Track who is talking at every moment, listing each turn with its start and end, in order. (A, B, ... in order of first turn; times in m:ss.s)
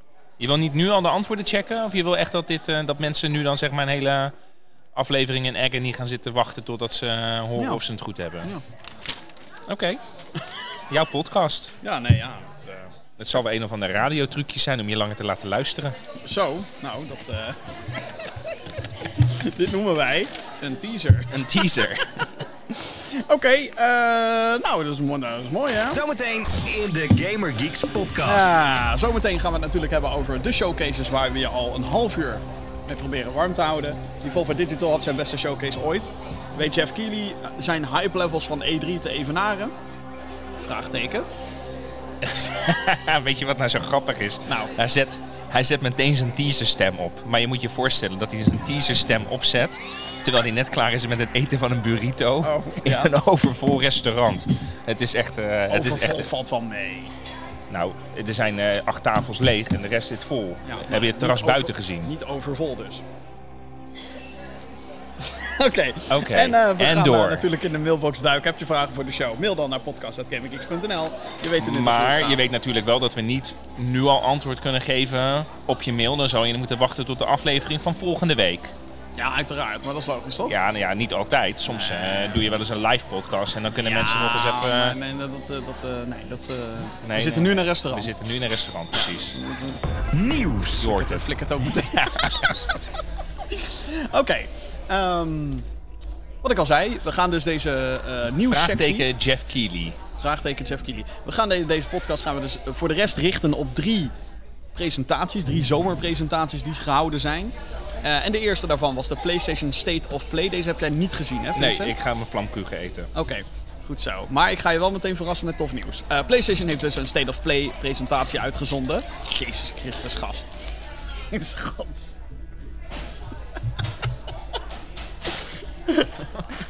0:00.4-0:04.3 A
0:05.0-0:08.5 A
0:07.6-0:07.8 B
0:09.7-0:10.0 A
0:10.9-0:11.8 A
0:11.8-0:12.9 B
0:13.2-0:16.0 A
0:16.2-0:17.7 B
0:18.2-0:18.5 B
0:19.0-0:21.4 B
0:21.3-0:22.3 A
0:22.7-0:26.0 B
0:25.9-0:28.6 C
0:28.2-0:39.7 B
0:40.6-0:41.4 B
0:42.2-0:56.3 A
0:52.4-0:53.1 B
0:55.7-0:57.1 B
0:57.7-1:02.1 A
1:00.7-1:03.0 B
1:05.2-1:12.4 B
1:06.1-1:07.5 A
1:11.6-1:18.7 A
1:19.2-1:20.5 B
1:20.5-1:25.0 A
1:21.7-1:22.5 B
1:23.8-1:28.2 B
1:27.0-1:29.4 A
1:29.0-1:29.8 B
1:30.1-1:30.9 C
1:30.8-1:31.3 A
1:30.8-1:32.8 B
1:31.8-1:32.7 A
1:33.4-1:35.7 B
1:36.4-1:39.1 B
1:38.5-1:40.0 A
1:40.2-1:44.1 B
1:44.8-1:52.0 B
1:51.6-1:53.1 A
1:53.1-2:02.1 B
2:05.9-2:06.3 B